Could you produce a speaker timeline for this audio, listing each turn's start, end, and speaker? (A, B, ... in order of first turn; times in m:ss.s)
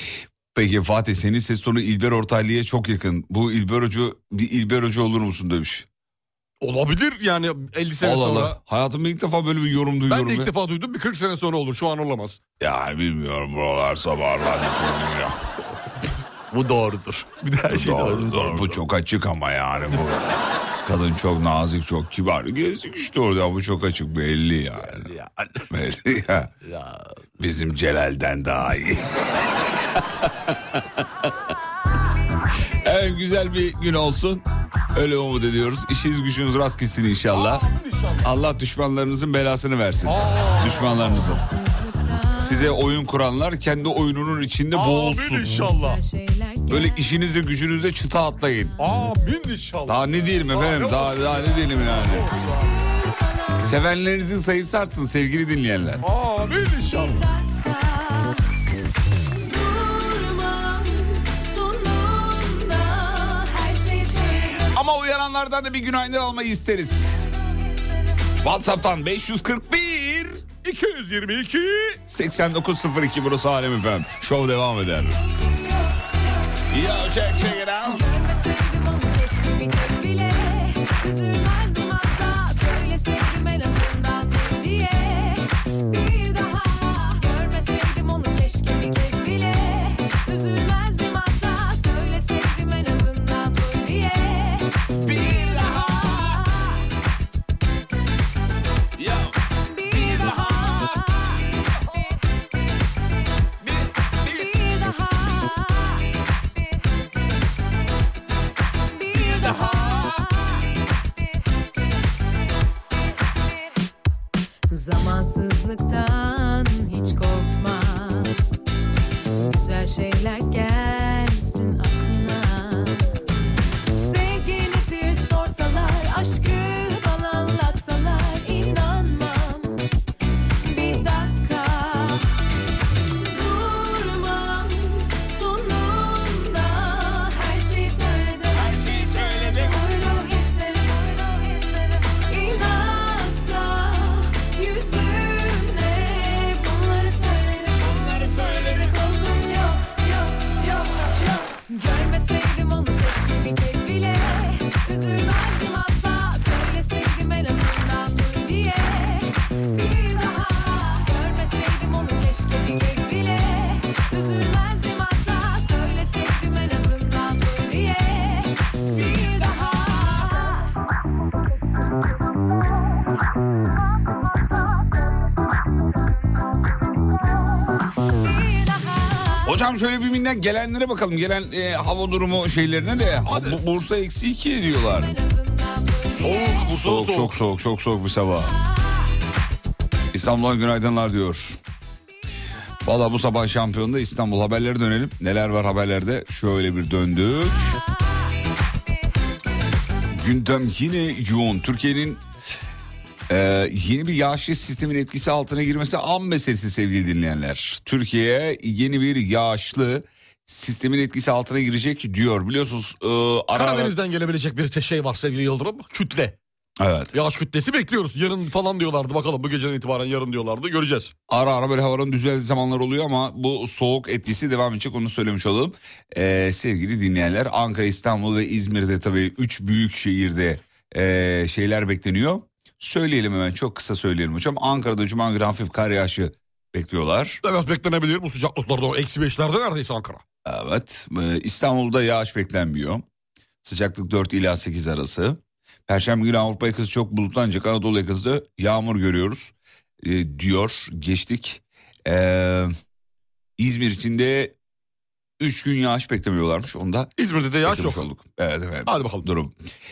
0:00.6-0:05.9 A
0:06.6-0:08.6 B
0:08.0-0:10.5 A
0:10.1-0:12.4 B
0:12.6-0:15.4 A
0:16.5-0:18.8 B
0:17.7-0:25.1 A
0:24.9-0:25.6 B
0:25.7-0:26.5 A
0:26.6-0:27.0 B
0:27.4-0:29.3 A
0:29.8-0:31.0 A
0:32.8-0:37.6 A
0:37.3-0:38.3 B
0:38.2-0:41.4 A
0:40.0-0:41.0 B
0:41.0-0:42.8 C
0:42.4-0:45.6 A
0:44.7-0:46.0 B
0:45.5-0:47.2 C
0:46.7-0:48.8 A
0:48.8-0:52.7 B
0:49.9-0:52.4 A
0:52.4-0:53.7 C
0:53.6-0:56.0 A
0:56.0-0:57.2 B
0:56.8-0:58.5 C
0:59.3-1:04.6 C
1:04.6-1:07.2 A
1:08.4-1:10.4 A
1:10.6-1:12.0 B
1:12.1-1:15.2 A
1:16.7-1:18.0 A
1:17.3-1:36.6 C
1:35.0-1:36.4 A
1:39.0-1:39.3 A
1:39.7-1:41.5 C
1:39.9-1:41.0 A
1:44.2-1:46.0 C
1:48.9-1:50.6 C
1:49.2-1:50.2 A
1:54.7-1:58.4 C
1:59.5-2:03.2 C
2:03.9-2:09.8 C
2:10.6-2:12.3 C
2:13.2-2:18.8 C
2:18.6-2:19.7 A
2:19.4-2:21.5 C
2:22.3-2:50.7 C
2:28.0-2:28.8 A
2:58.2-2:59.5 C
2:59.4-3:05.1 A
3:03.3-3:03.6 B
3:04.8-3:06.7 C
3:06.2-3:07.4 B
3:06.7-3:08.6 A
3:10.1-3:11.6 A
3:12.8-3:17.8 A
3:20.1-3:22.2 A
3:23.3-3:34.0 A
3:33.5-3:36.4 B
3:36.8-3:37.1 A
3:37.1-3:41.1 B
3:41.3-3:57.4 A
3:57.4-4:00.2 B
4:00.4-4:03.0 A
4:03.6-4:12.7 A
4:13.6-4:14.6 A
4:15.4-4:17.1 A
4:17.2-4:18.0 B
4:17.6-4:19.6 A
4:18.9-4:19.3 B